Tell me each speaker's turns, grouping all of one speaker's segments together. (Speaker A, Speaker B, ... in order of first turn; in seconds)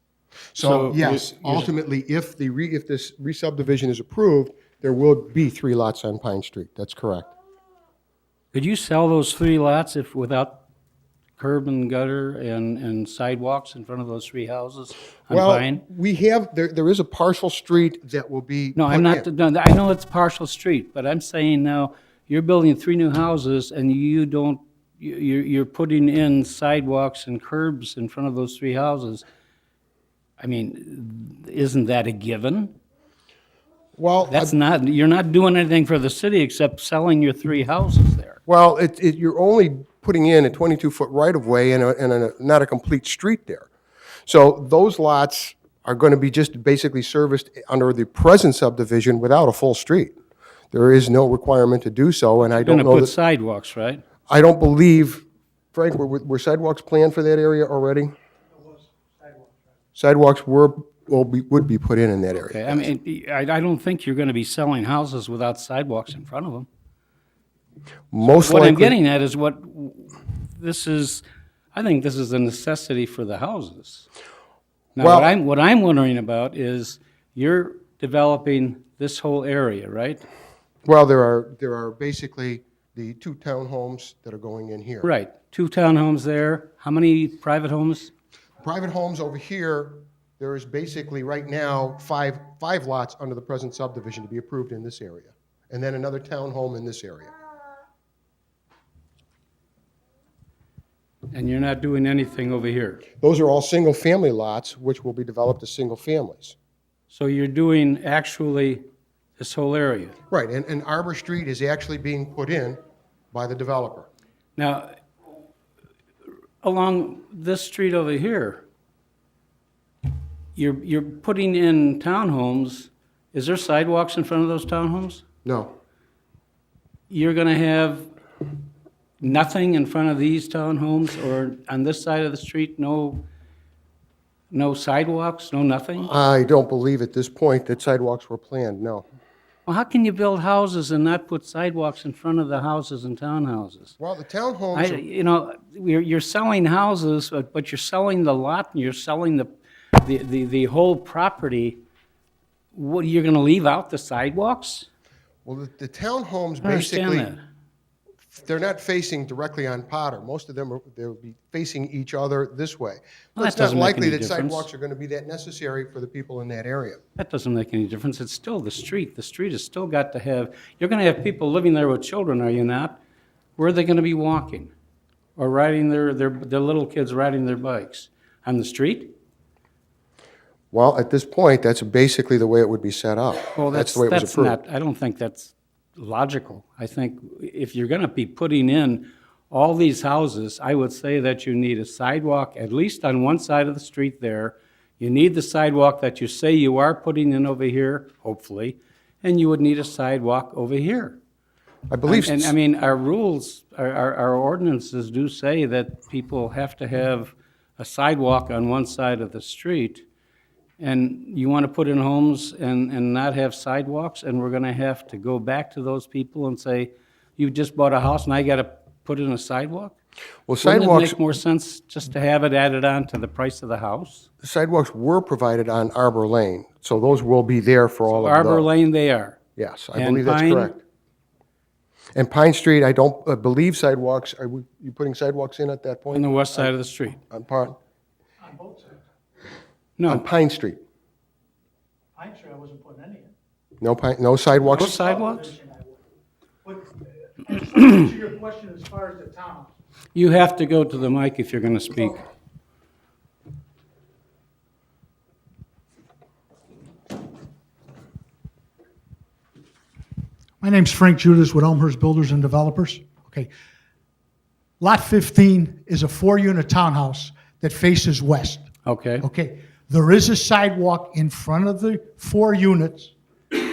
Speaker A: 0.5-7.3, 15.3-19.2, 34.0-34.5, 38.5-43.7, 44.2-50.1, 50.7-53.1, 54.3-58.1, 60.0-62.9, 68.1-69.0, 75.0-75.3, 80.8-85.1, 88.6-97.3, 103.2-106.5, 110.3-112.8, 113.3-114.1, 125.4-125.7, 136.0-139.1, 144.0-145.0, 155.4-157.3, 158.3-167.0, 180.7-184.6, 201.9-202.5, 220.5-221.2, 224.4-228.7, 229.6-230.8, 232.1-236.7, 237.3-237.8, 240.1-240.8, 243.8-245.1
Speaker B: 0.6-1.7, 8.5-10.6, 11.4-15.8, 18.7-29.2, 30.4-32.8, 34.3-38.4, 52.4-54.0, 62.4-66.7, 68.2-74.1, 75.0-80.2, 85.0-88.1, 101.3-103.0, 107.1-108.8, 109.4-110.2, 114.6-114.9, 116.6-118.6, 120.5-125.2, 127.1-128.1, 129.2-133.3, 134.5-136.1, 139.7-143.9, 144.7-151.8, 152.7-154.9, 156.6-157.4, 163.4-164.7, 167.2-173.0, 173.6-174.7, 175.4-179.1, 183.5-201.2, 202.1-210.1, 210.8-219.9, 220.6-224.3, 228.1-229.4, 229.9-230.7, 236.1-237.2, 240.0-240.2, 244.7-245.6, 250.1-252.2, 268.9-269.2
Speaker C: 58.6-59.5, 238.4-239.0, 242.2-243.3, 244.9-246.0, 246.6-249.7, 260.6-263.5, 264.8-268.6, 269.2-273.1